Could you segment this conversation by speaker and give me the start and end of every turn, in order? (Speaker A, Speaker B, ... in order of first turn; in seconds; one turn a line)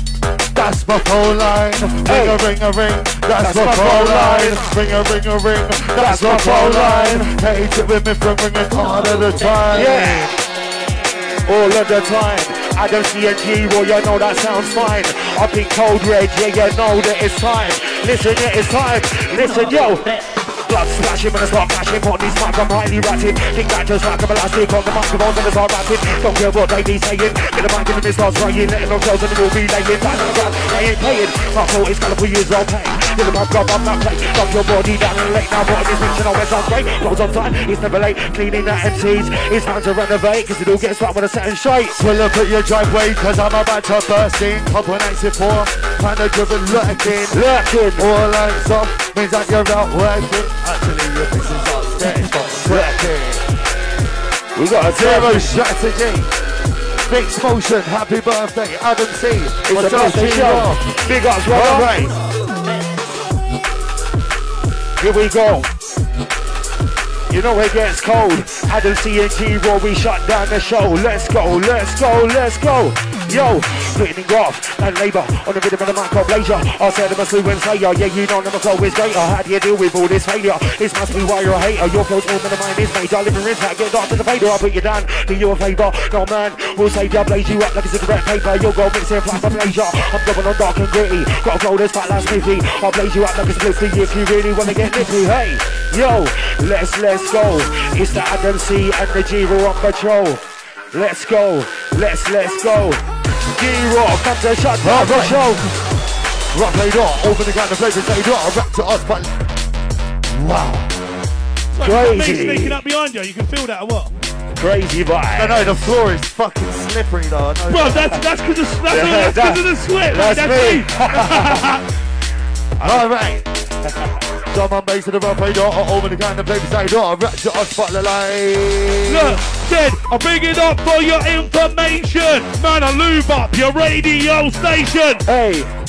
Speaker A: 0.5-10.4
Speaker B: 2.0-2.4
Speaker B: 3.4-4.8
Speaker B: 6.0-7.3
Speaker B: 9.6-10.3
Speaker B: 11.5-20.1
Speaker B: 20.7-42.0
Speaker A: 42.0-47.4
Speaker B: 47.3-48.1
Speaker A: 48.0-53.4
Speaker B: 54.5-55.6
Speaker A: 54.8-56.3
Speaker A: 57.1-62.2
Speaker B: 59.7-61.9
Speaker B: 65.0-65.7
Speaker B: 67.3-103.0
Speaker B: 103.6-105.7
Speaker A: 104.8-105.5
Speaker A: 106.5-109.3
Speaker A: 110.3-110.9
Speaker C: 111.7-114.1
Speaker B: 111.8-112.8
Speaker B: 114.5-115.7
Speaker A: 115.3-118.2
Speaker C: 117.7-121.8
Speaker B: 118.9-121.7
Speaker A: 122.8-123.5
Speaker B: 123.8-124.2
Speaker A: 124.5-129.4
Speaker C: 129.1-135.2
Speaker B: 135.3-135.7